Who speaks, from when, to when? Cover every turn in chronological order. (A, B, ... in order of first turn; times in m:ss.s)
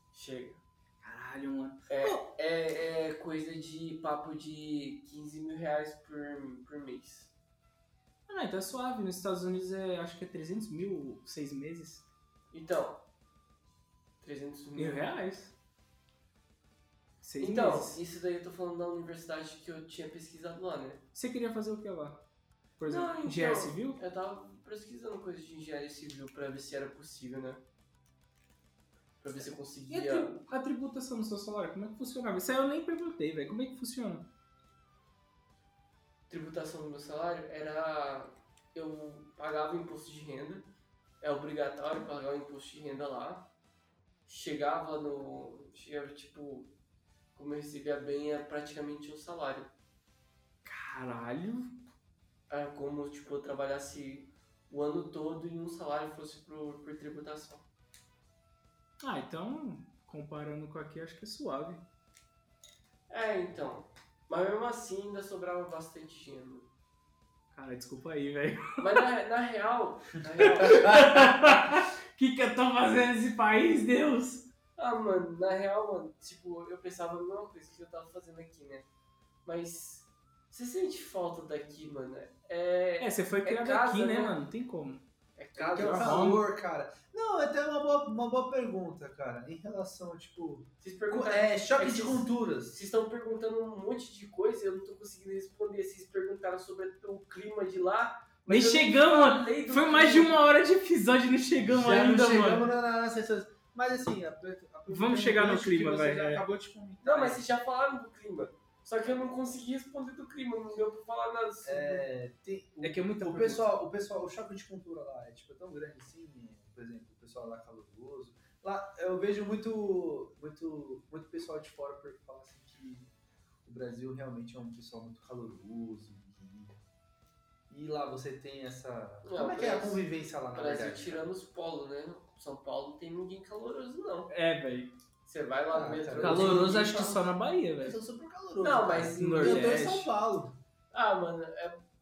0:00.1-0:00.6 A
0:01.0-0:02.2 B
0:01.9-0:07.3 A
0:08.3-0:12.1 B
0:12.5-0:13.0 A
0:14.2-0:15.1 A
0:14.8-0:15.6 B
0:17.2-0:18.0 B
0:17.4-0:21.0 A
0:21.2-0:22.3 B
0:22.8-0:24.0 B
0:22.9-0:27.6 A
0:29.2-0:30.4 A
0:29.9-0:34.3 B
0:36.3-0:40.7 A
0:41.2-0:43.5 A
0:44.3-0:46.7 A
0:47.4-0:49.7 A
0:50.6-0:51.7 B
0:52.5-0:57.7 A
0:59.0-1:01.8 B
1:03.1-1:06.7 A
1:07.5-1:08.9 B
1:08.8-1:11.0 A
1:10.4-1:14.5 B
1:10.7-1:11.2 C
1:14.8-1:18.9 A
1:19.4-1:24.4 A
1:23.0-1:25.1 B
1:25.4-1:26.3 A
1:25.6-1:32.8 C
1:25.8-1:26.4 B
1:30.8-1:40.3 A
1:38.5-1:42.7 B
1:41.6-1:47.4 C
1:44.9-1:46.5 B
1:47.0-1:52.0 A
1:51.6-2:03.1 C
1:52.8-1:53.7 B
2:03.6-2:06.8 C
2:07.7-2:11.3 C
2:09.2-2:14.3 A
2:14.3-2:14.9 B
2:15.2-2:17.2 A
2:15.7-2:17.1 C
2:16.2-2:18.0 B
2:17.8-2:20.6 C
2:18.6-2:19.8 A
2:19.2-2:20.1 B
2:20.9-2:21.8 A